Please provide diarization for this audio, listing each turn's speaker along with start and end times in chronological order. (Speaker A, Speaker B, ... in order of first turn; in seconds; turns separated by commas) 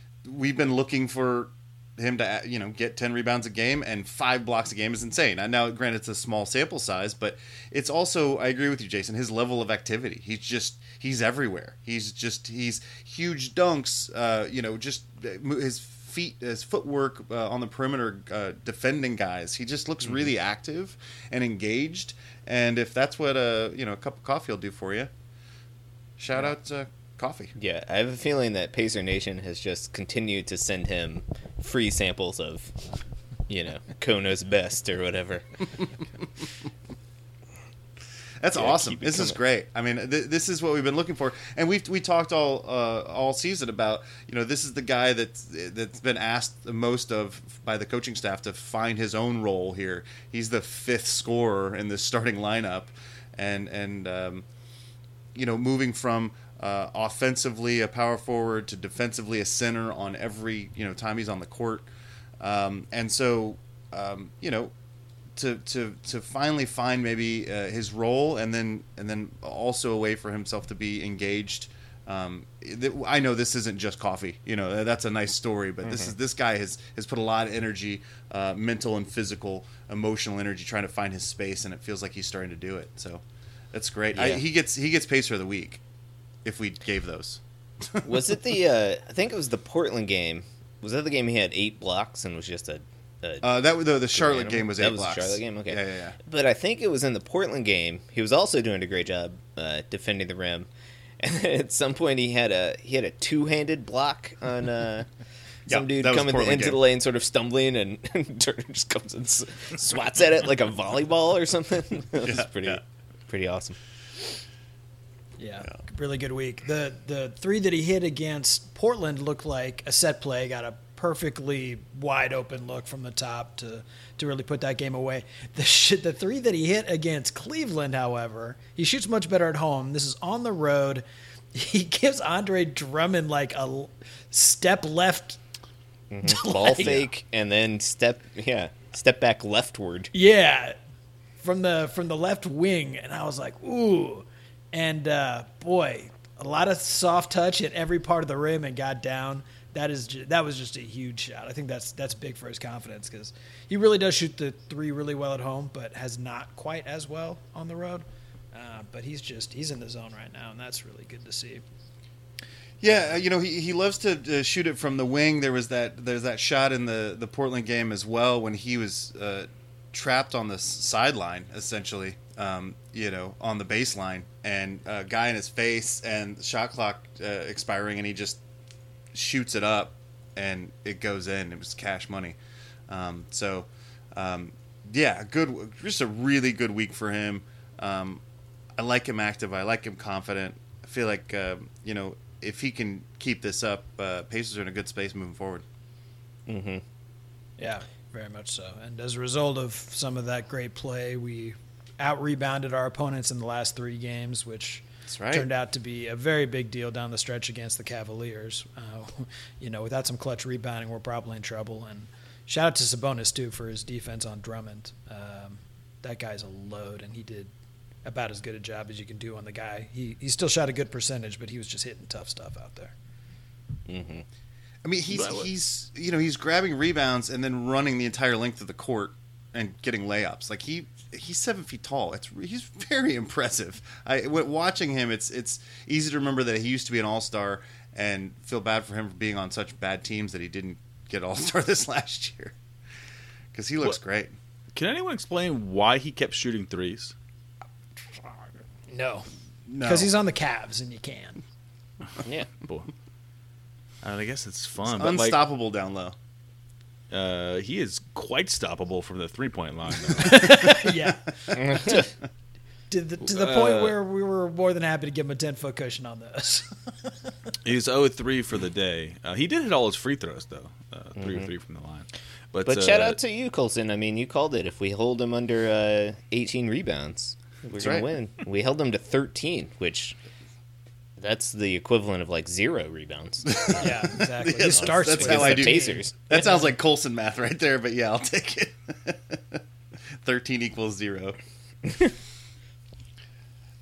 Speaker A: 0.2-25.1, Speaker A: 26.2-27.5, Speaker B: 27.6-32.7, Speaker B: 33.5-35.5, Speaker A: 38.4-54.5, Speaker B: 38.5-39.4, Speaker A: 55.4-61.9, Speaker A: 62.4-64.7, Speaker A: 65.4-83.2, Speaker B: 75.8-76.1, Speaker A: 83.7-85.8, Speaker B: 84.2-84.4, Speaker A: 86.4-88.4, Speaker B: 88.0-105.1, Speaker A: 93.4-96.2, Speaker A: 105.7-106.8, Speaker B: 105.7-113.8, Speaker A: 112.2-112.8, Speaker C: 115.4-135.4, Speaker B: 136.1-140.1, Speaker C: 136.2-137.1, Speaker C: 140.1-140.8, Speaker C: 141.4-161.6, Speaker A: 162.8-178.4, Speaker C: 162.8-163.2, Speaker A: 179.1-182.4, Speaker A: 182.9-188.2, Speaker A: 188.8-195.6, Speaker B: 196.5-196.8, Speaker C: 197.6-217.5, Speaker A: 205.1-205.5, Speaker C: 218.1-222.9, Speaker B: 223.9-224.2, Speaker A: 224.8-242.5, Speaker D: 225.1-225.5, Speaker A: 243.5-244.3, Speaker D: 244.7-247.2, Speaker C: 248.9-249.3, Speaker A: 249.7-250.1, Speaker C: 249.8-251.4, Speaker B: 252.2-252.5, Speaker D: 252.6-252.9, Speaker D: 254.0-255.4, Speaker A: 254.9-256.1, Speaker D: 257.1-260.8, Speaker C: 260.2-262.0, Speaker B: 261.6-262.1, Speaker C: 262.9-267.3, Speaker D: 263.2-264.0, Speaker D: 267.6-273.2, Speaker B: 271.2-271.5, Speaker B: 272.6-280.2, Speaker A: 277.8-278.1, Speaker B: 281.2-284.2, Speaker A: 283.5-289.6, Speaker C: 283.8-286.8, Speaker B: 284.7-286.1, Speaker A: 290.2-291.4